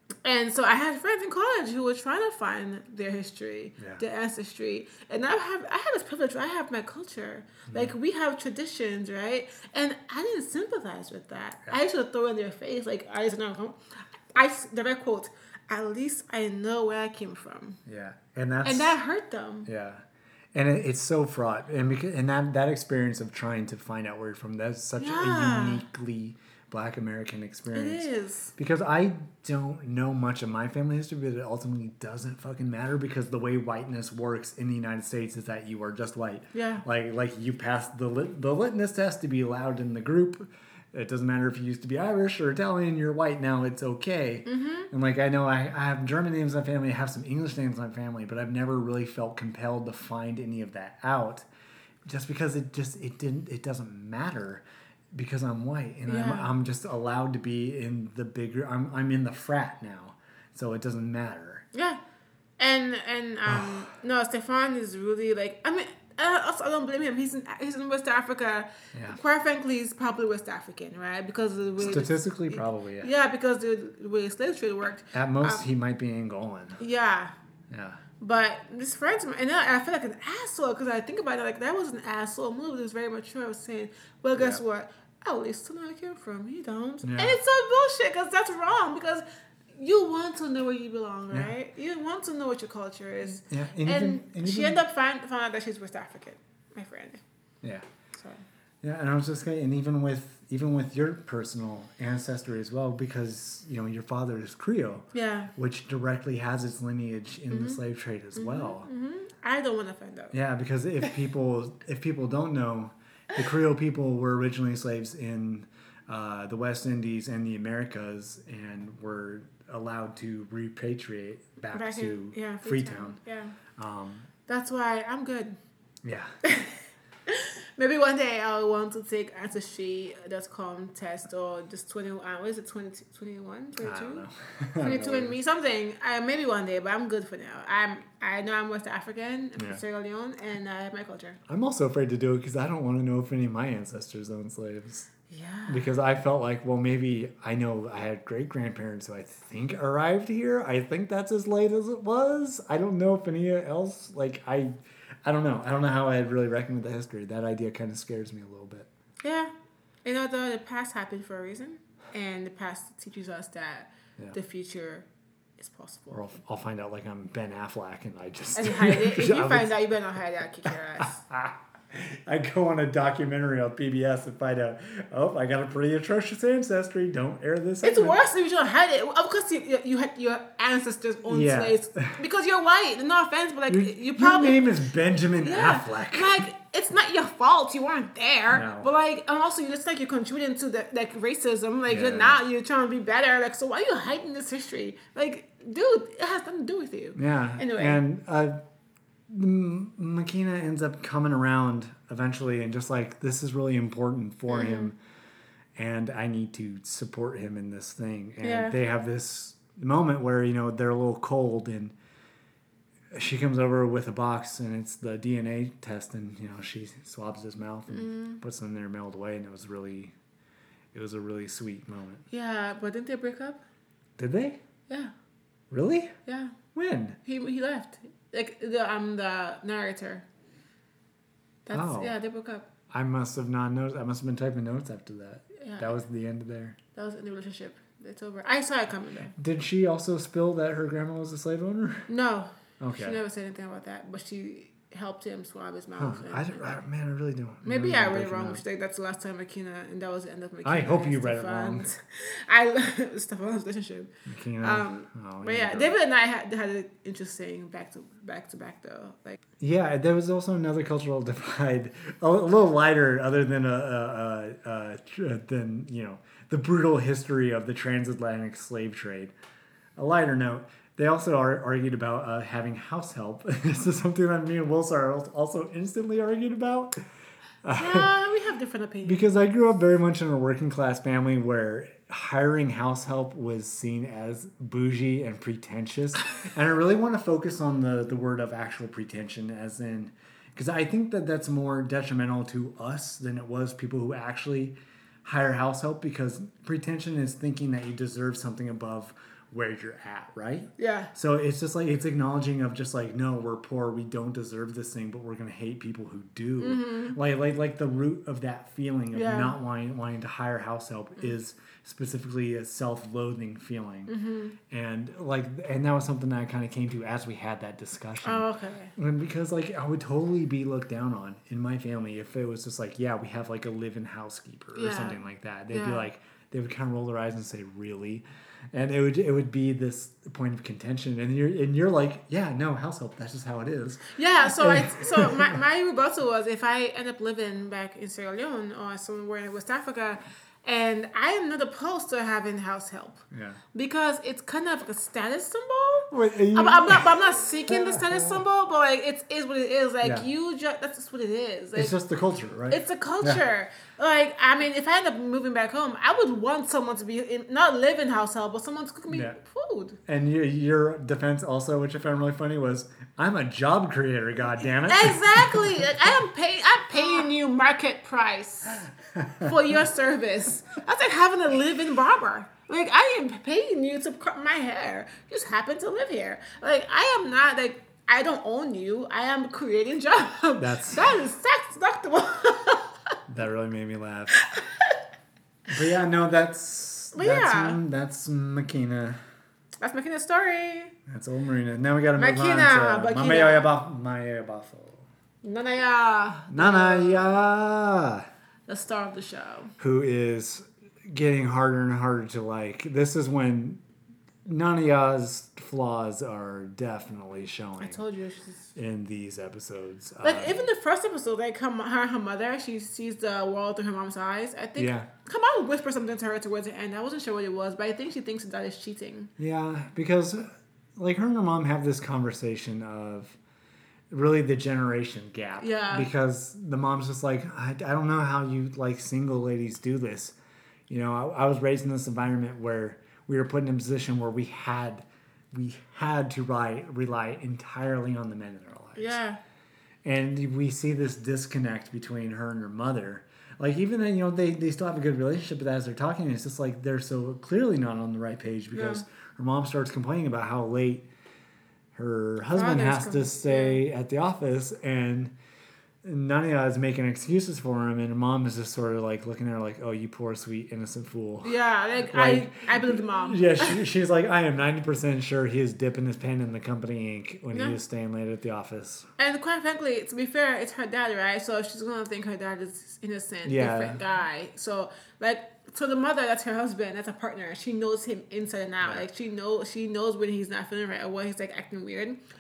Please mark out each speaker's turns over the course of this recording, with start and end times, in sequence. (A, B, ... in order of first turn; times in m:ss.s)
0:00.2-0:13.8 A
0:07.7-0:07.9 B
0:14.3-0:17.8 A
0:17.9-0:19.0 B
0:18.6-0:19.7 A
0:19.6-0:51.5 B
0:25.0-0:25.8 A
0:27.7-0:28.5 A
0:36.5-0:36.8 A
0:44.5-0:44.9 A
0:52.0-1:01.7 B
0:56.1-0:56.5 A
1:01.7-1:02.0 A
1:02.6-1:15.6 A
1:03.5-1:03.9 B
1:08.9-1:09.2 B
1:11.8-1:13.1 B
1:15.1-1:16.8 B
1:16.8-1:17.3 A
1:17.7-1:18.0 B
1:18.2-1:29.2 A
1:24.4-1:24.6 B
1:27.0-1:27.4 B
1:29.8-1:37.2 A
1:33.4-1:34.8 B
1:38.2-1:38.4 A
1:38.8-1:48.9 B
1:45.1-1:45.5 A
1:47.5-1:47.8 A
1:48.4-1:50.4 A
1:50.3-2:03.2 B
2:01.7-2:03.6 A
2:03.8-2:04.3 B
2:04.5-2:05.6 A
2:06.0-2:06.4 B
2:06.4-2:14.3 A
2:13.8-2:15.4 B
2:14.8-2:21.4 A
2:19.6-2:19.8 B
2:21.5-2:25.1 B
2:25.3-2:25.9 A
2:25.7-2:38.9 B
2:39.2-2:39.5 A
2:40.0-2:45.1 A
2:45.6-2:46.2 A
2:46.1-2:49.7 B
2:48.6-2:51.2 A
2:51.0-2:58.2 B
2:57.8-3:04.7 A
3:01.3-3:02.2 B
3:03.7-3:06.4 B
3:05.4-3:18.0 A
3:08.5-3:08.9 B
3:11.9-3:12.4 B
3:17.2-3:18.6 B
3:19.3-3:25.0 B
3:24.5-3:24.9 A
3:25.8-3:32.0 B
3:28.4-3:28.8 A
3:33.1-3:40.2 B
3:37.9-3:38.4 A
3:40.9-3:42.3 B
3:42.3-3:43.6 A
3:44.2-3:44.6 B
3:45.7-3:46.2 B
3:46.3-3:46.6 A
3:46.8-3:47.2 B
3:47.2-3:50.3 A
3:51.7-3:52.7 A
3:51.7-3:52.1 B
3:52.9-3:56.8 B
3:55.6-3:55.9 A
3:57.0-3:59.4 A
3:59.4-4:02.1 B
4:02.1-4:06.8 A
4:02.8-4:03.2 B
4:06.0-4:08.6 B
4:07.6-4:19.4 A
4:10.6-4:11.9 B
4:14.3-4:16.0 B
4:19.6-4:29.3 B
4:30.0-4:37.0 B
4:37.6-4:38.1 B
4:37.7-4:39.3 A
4:39.0-5:14.1 B
5:00.8-5:01.1 A
5:06.6-5:07.2 A
5:09.1-5:09.6 A
5:14.1-5:14.6 A
5:14.7-5:35.6 B
5:18.2-5:18.9 A
5:24.8-5:26.1 A
5:34.1-5:51.9 A
5:43.3-5:43.6 B
5:46.1-5:47.2 B
5:47.7-5:48.4 B
5:51.8-5:53.4 B
5:52.7-6:00.0 A
5:59.1-5:59.4 B
6:00.1-6:05.9 B
6:04.8-6:08.9 A
6:09.1-6:09.6 B
6:09.4-6:23.1 A
6:20.6-6:21.1 B
6:23.3-6:24.4 B
6:24.4-6:25.0 A
6:25.7-6:29.2 B
6:27.1-6:27.8 A
6:29.8-6:31.0 A
6:31.1-6:35.1 B
6:32.2-6:33.7 A
6:35.4-6:37.4 A
6:36.5-6:38.3 B
6:38.7-6:39.7 A
6:39.8-6:43.8 B
6:44.4-6:48.0 B
6:47.8-6:48.7 A
6:48.8-6:50.6 B
6:50.2-6:59.3 A
6:54.8-6:55.1 B
6:59.4-7:03.4 B
7:04.1-7:10.4 B
7:05.6-7:06.1 A
7:10.9-7:19.2 B
7:19.0-7:19.4 A
7:20.0-7:31.1 B
7:28.7-7:29.0 A
7:31.9-7:35.3 B
7:32.5-7:33.8 A
7:36.0-7:49.1 B
7:41.4-7:43.8 A
7:47.5-7:47.8 A
7:49.2-8:02.2 A
7:53.4-7:54.0 B
7:58.8-7:59.1 B